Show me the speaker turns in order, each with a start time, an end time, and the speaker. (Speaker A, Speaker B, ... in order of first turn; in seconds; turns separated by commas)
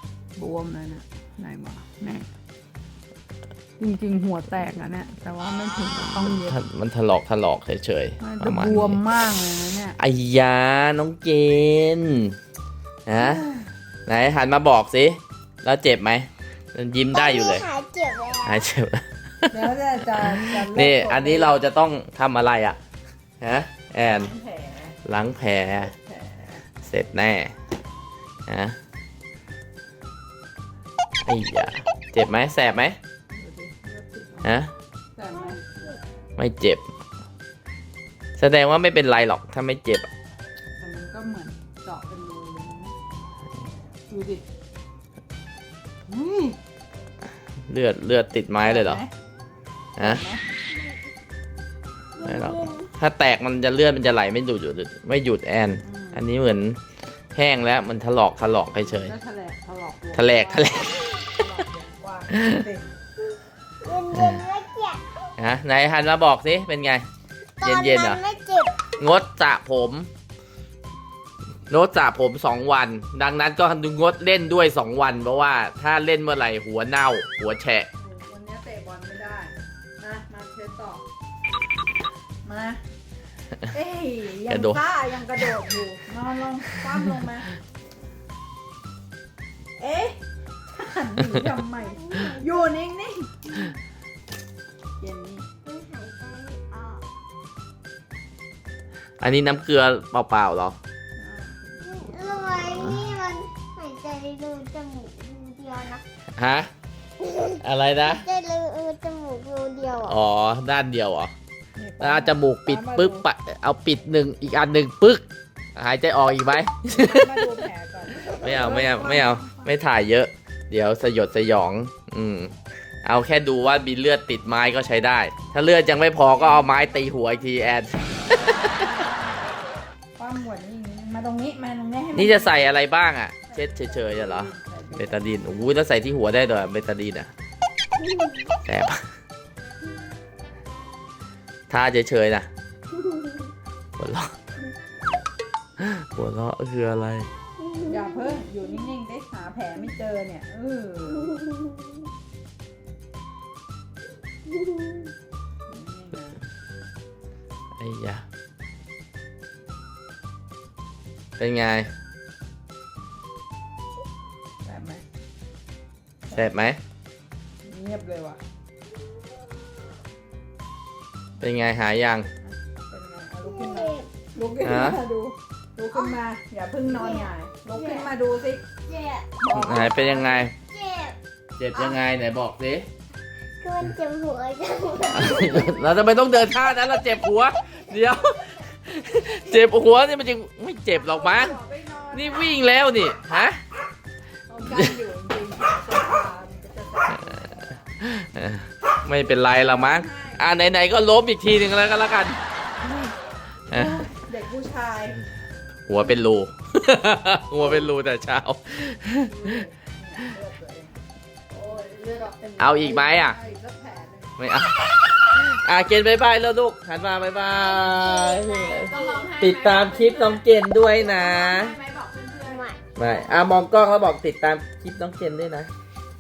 Speaker A: 0.4-2.3, Speaker A: 3.8-6.6, Speaker B: 6.0-9.0, Speaker A: 8.2-10.0, Speaker B: 10.0-12.3, Speaker B: 13.1-13.4, Speaker A: 13.2-13.7, Speaker B: 14.1-17.6, Speaker C: 17.1-18.6, Speaker B: 18.4-19.5, Speaker A: 19.5-21.6, Speaker B: 20.1-22.8, Speaker B: 23.4-24.3, Speaker A: 24.1-25.0, Speaker B: 25.1-25.9, Speaker A: 25.8-26.6, Speaker B: 26.8-27.5, Speaker B: 28.5-28.8, Speaker B: 31.2-33.0, Speaker A: 33.3-34.6, Speaker B: 34.4-34.7, Speaker A: 35.2-35.7, Speaker C: 35.3-36.0, Speaker B: 36.4-36.8, Speaker B: 38.4-40.1, Speaker A: 40.8-42.9, Speaker A: 44.1-44.4, Speaker A: 46.1-46.6, Speaker B: 47.7-49.0, Speaker A: 48.6-49.1, Speaker B: 50.0-50.2, Speaker A: 50.0-50.4, Speaker C: 52.2-52.9, Speaker B: 52.2-56.8, Speaker A: 55.8-56.2, Speaker B: 57.3-59.1, Speaker A: 58.8-60.8, Speaker B: 60.1-61.1, Speaker A: 61.3-62.8, Speaker B: 62.4-62.6, Speaker C: 63.8-65.0, Speaker B: 64.1-64.4, Speaker B: 65.4-67.1, Speaker C: 67.6-68.8, Speaker B: 67.6-68.2, Speaker B: 69.0-70.1, Speaker B: 71.7-77.9, Speaker A: 78.0-81.0, Speaker A: 82.4-82.8, Speaker A: 83.7-87.5, Speaker B: 84.5-84.8, Speaker A: 89.8-90.2, Speaker A: 90.7-93.7, Speaker C: 91.8-92.5, Speaker A: 95.0-95.5, Speaker C: 95.6-97.0, Speaker B: 99.2-100.8, Speaker A: 101.2-102.7, Speaker C: 101.8-106.0, Speaker B: 102.5-103.1, Speaker B: 106.4-106.7, Speaker C: 107.2-110.2, Speaker B: 107.6-108.2, Speaker B: 110.0-111.3, Speaker A: 111.8-113.2, Speaker B: 112.0-115.2, Speaker B: 115.8-117.4, Speaker A: 116.9-119.7, Speaker B: 118.4-122.5, Speaker C: 118.4-118.7, Speaker B: 123.0-128.8, Speaker A: 126.2-129.4, Speaker A: 130.2-132.8, Speaker B: 132.1-137.3, Speaker A: 133.5-135.5, Speaker C: 138.0-138.4, Speaker B: 138.7-139.0, Speaker B: 141.7-142.5, Speaker B: 144.0-144.3, Speaker B: 145.8-147.3, Speaker C: 147.6-148.3, Speaker A: 147.8-151.3, Speaker C: 154.7-155.0, Speaker A: 155.7-156.4, Speaker B: 157.8-158.2, Speaker B: 161.4-161.9, Speaker A: 164.7-165.0, Speaker B: 166.3-166.8, Speaker A: 167.7-168.4, Speaker B: 171.4-172.3, Speaker A: 172.4-178.6, Speaker C: 173.4-174.1, Speaker B: 174.6-175.0, Speaker C: 175.9-176.2, Speaker C: 176.9-178.1, Speaker C: 178.9-179.3, Speaker A: 179.4-180.5, Speaker B: 179.5-180.5, Speaker C: 180.6-181.2, Speaker B: 181.6-182.9, Speaker C: 183.6-185.9, Speaker B: 185.1-191.6, Speaker A: 190.9-192.6, Speaker B: 192.1-193.6, Speaker A: 194.5-197.8, Speaker B: 194.7-194.9, Speaker B: 198.0-202.4, Speaker A: 199.5-200.5, Speaker A: 203.7-205.2, Speaker B: 205.9-209.6, Speaker A: 209.2-211.0, Speaker C: 211.5-212.4, Speaker A: 211.7-214.3, Speaker B: 212.6-213.4, Speaker B: 214.4-221.8, Speaker C: 217.6-219.4, Speaker A: 218.8-220.4, Speaker A: 221.0-222.6, Speaker C: 222.4-222.8, Speaker B: 222.9-225.7